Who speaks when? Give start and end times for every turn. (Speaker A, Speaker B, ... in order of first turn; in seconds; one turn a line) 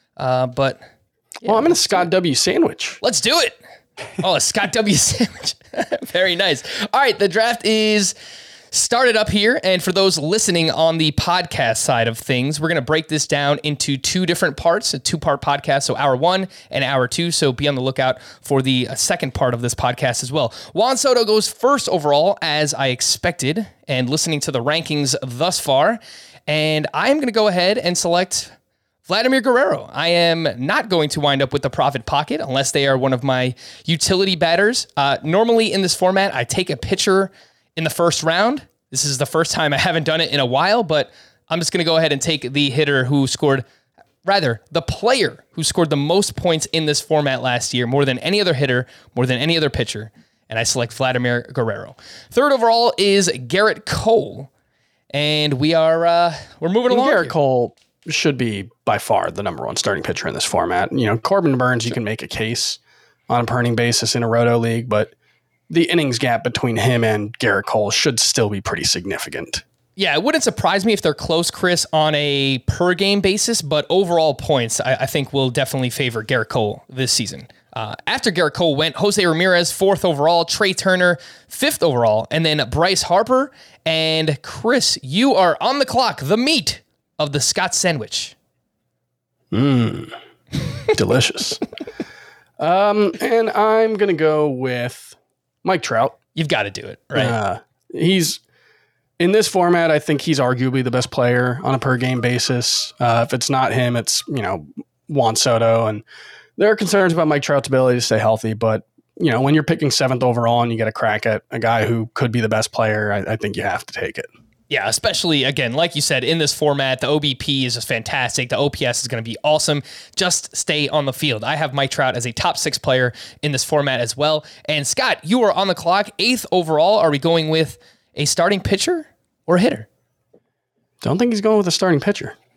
Speaker A: 0.2-0.8
Speaker A: 1.4-2.1
Speaker B: 1.4-3.0
Speaker A: 3.0-3.6
Speaker A: 4.2-8.1
Speaker A: 8.7-28.5
Speaker A: 29.1-43.6
Speaker A: 44.2-54.5
Speaker A: 55.1-57.4
Speaker B: 56.9-65.1
Speaker B: 65.7-69.6
Speaker A: 70.0-88.3
Speaker B: 89.5-90.2
Speaker B: 90.9-91.6
Speaker B: 92.6-96.2
Speaker A: 96.4-97.4
Speaker B: 97.1-98.4
Speaker B: 99.2-106.0
Speaker B: 106.6-114.3
Speaker A: 114.7-129.9
Speaker B: 131.0-132.4